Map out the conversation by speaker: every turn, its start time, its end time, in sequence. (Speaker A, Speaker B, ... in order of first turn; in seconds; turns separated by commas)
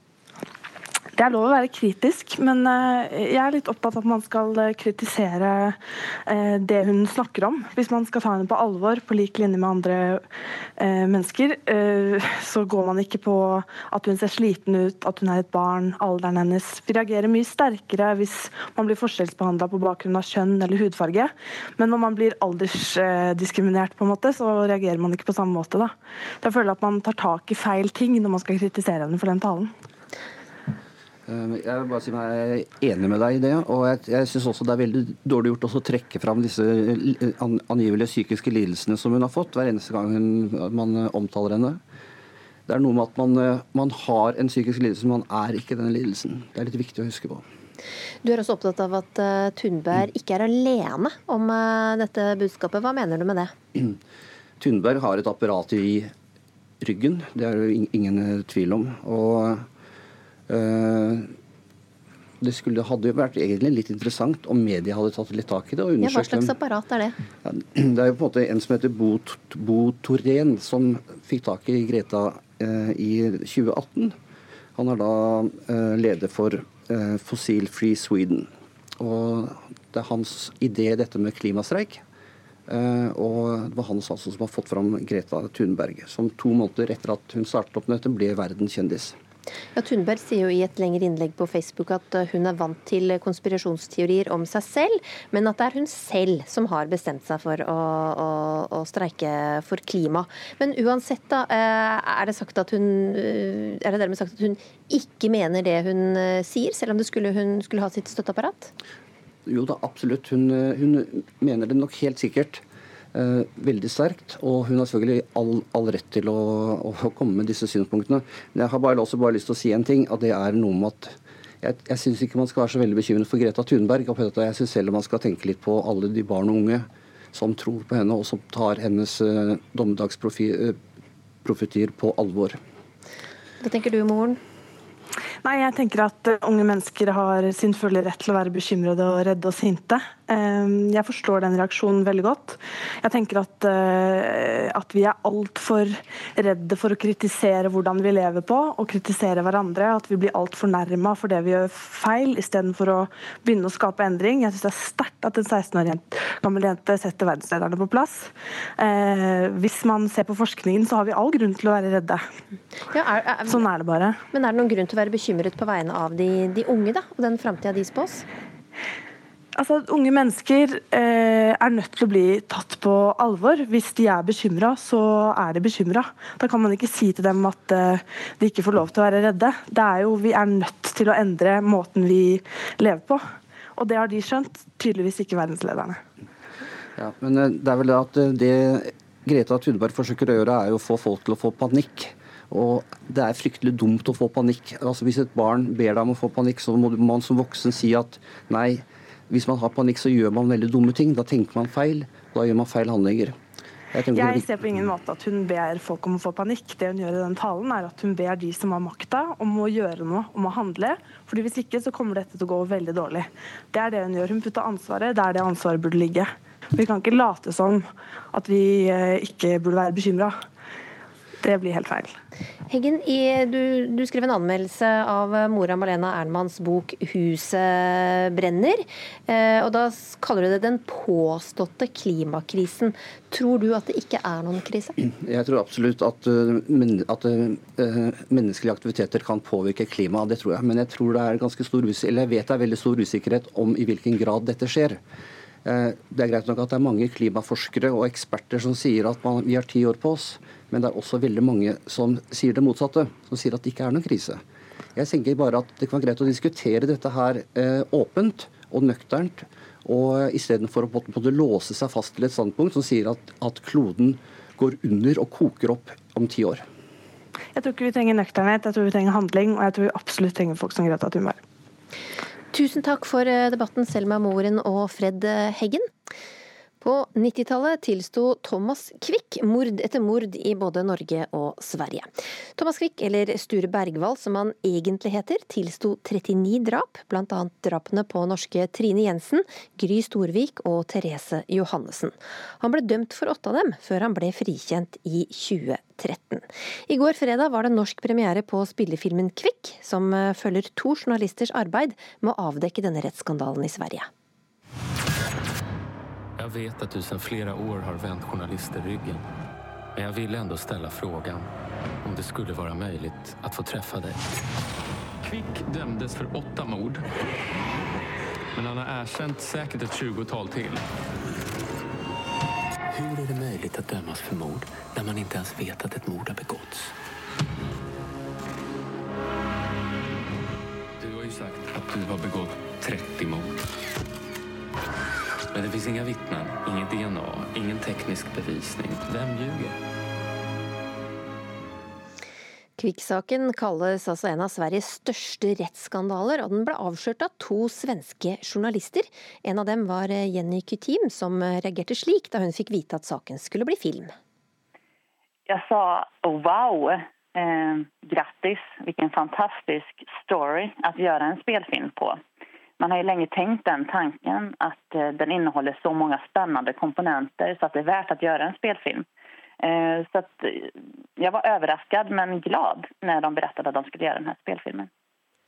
Speaker A: 1.1-10.2, Speaker A: 10.8-29.7, Speaker B: 31.3-41.8, Speaker B: 42.7-47.4, Speaker C: 48.2-53.5, Speaker B: 54.6-56.1, Speaker B: 56.8-59.6, Speaker B: 60.5-61.3, Speaker B: 62.4-66.5, Speaker C: 66.0-67.2, Speaker B: 67.4-74.1, Speaker B: 74.8-82.0, Speaker B: 82.7-89.2, Speaker C: 89.7-108.7, Speaker B: 109.5-112.6, Speaker B: 113.1-130.8, Speaker B: 131.4-132.6, Speaker C: 133.6-134.4, Speaker A: 135.4-162.2, Speaker C: 162.9-163.6, Speaker A: 163.5-164.1, Speaker C: 164.3-168.2, Speaker A: 169.6-186.0, Speaker B: 187.0-203.3, Speaker B: 203.9-204.7, Speaker A: 204.1-220.4, Speaker A: 221.4-222.1, Speaker C: 222.7-234.9, Speaker B: 235.0-245.0, Speaker B: 245.6-254.4, Speaker B: 254.9-266.6, Speaker A: 267.6-271.4, Speaker C: 272.5-275.9, Speaker C: 276.8-304.1, Speaker D: 306.4-309.2, Speaker D: 310.0-311.4, Speaker D: 312.0-314.2, Speaker D: 315.3-317.0, Speaker D: 318.6-320.8, Speaker D: 322.9-326.8, Speaker D: 331.0-333.5, Speaker D: 335.5-339.7, Speaker C: 342.8-354.1, Speaker E: 355.5-362.2, Speaker E: 362.8-369.0, Speaker E: 369.6-374.9